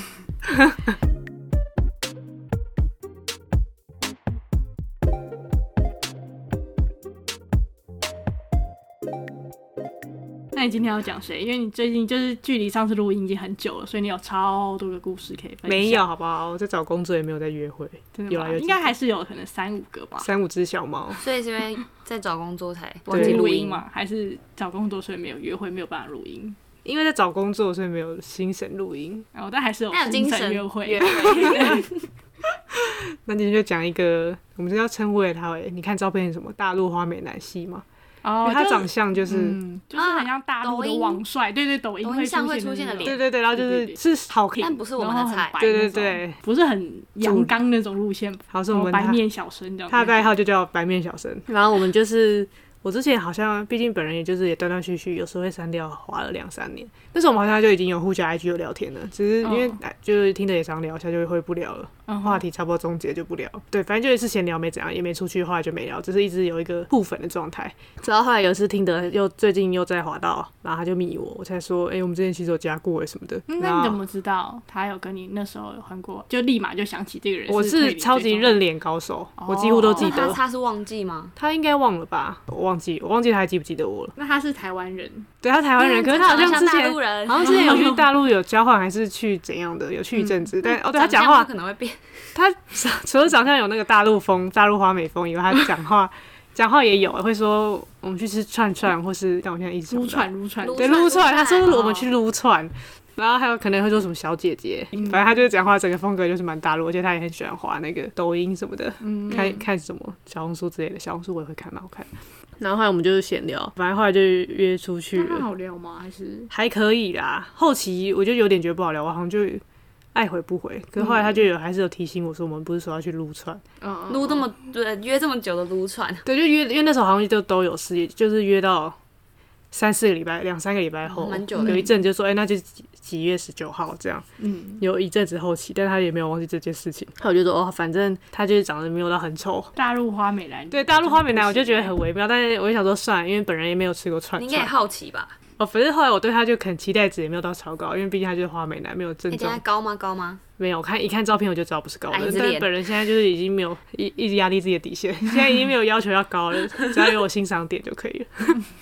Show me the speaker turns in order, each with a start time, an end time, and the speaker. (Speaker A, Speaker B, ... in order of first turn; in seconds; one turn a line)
Speaker A: 0.5-0.7
Speaker B: 10.5-16.0
Speaker A: 15.6-18.9
Speaker B: 18.1-20.3
Speaker A: 20.2-21.2
Speaker C: 21.2-23.8
Speaker B: 23.1-26.6
Speaker A: 23.1-23.4
Speaker A: 26.8-29.2
Speaker B: 29.3-31.9
Speaker C: 29.9-32.0
Speaker A: 32.7-37.8
Speaker B: 38.2-44.0
Speaker A: 38.4-39.6
Speaker C: 39.9-41.2
Speaker C: 42.0-43.2
Speaker A: 43.0-44.7
Speaker C: 44.6-45.6
Speaker B: 44.6-50.2
Speaker A: 45.6-46.4
Speaker A: 47.2-47.5
Speaker A: 48.5-49.2
Speaker A: 49.9-74.0
Speaker B: 59.4-59.8
Speaker B: 62.1-62.4
Speaker B: 73.5-78.6
Speaker A: 77.5-80.4
Speaker B: 79.4-80.3
Speaker C: 80.0-81.3
Speaker A: 81.4-84.1
Speaker B: 84.2-85.3
Speaker A: 85.4-91.5
Speaker C: 85.8-87.9
Speaker C: 90.6-92.1
Speaker A: 92.3-112.1
Speaker B: 99.9-101.1
Speaker C: 100.6-102.0
Speaker B: 101.6-102.1
Speaker B: 104.9-105.3
Speaker B: 109.0-109.5
Speaker A: 112.6-115.5
Speaker B: 115.1-116.5
Speaker A: 116.5-119.6
Speaker A: 120.1-123.6
Speaker B: 121.0-121.4
Speaker B: 123.8-124.5
Speaker C: 124.1-126.2
Speaker A: 126.2-128.9
Speaker A: 129.7-134.2
Speaker C: 131.1-131.9
Speaker B: 131.5-131.9
Speaker B: 134.4-134.8
Speaker A: 134.8-139.7
Speaker B: 139.7-141.9
Speaker A: 140.7-144.7
Speaker C: 144.3-145.3
Speaker A: 145.6-149.6
Speaker C: 149.3-150.4
Speaker A: 150.6-158.6
Speaker C: 152.1-152.7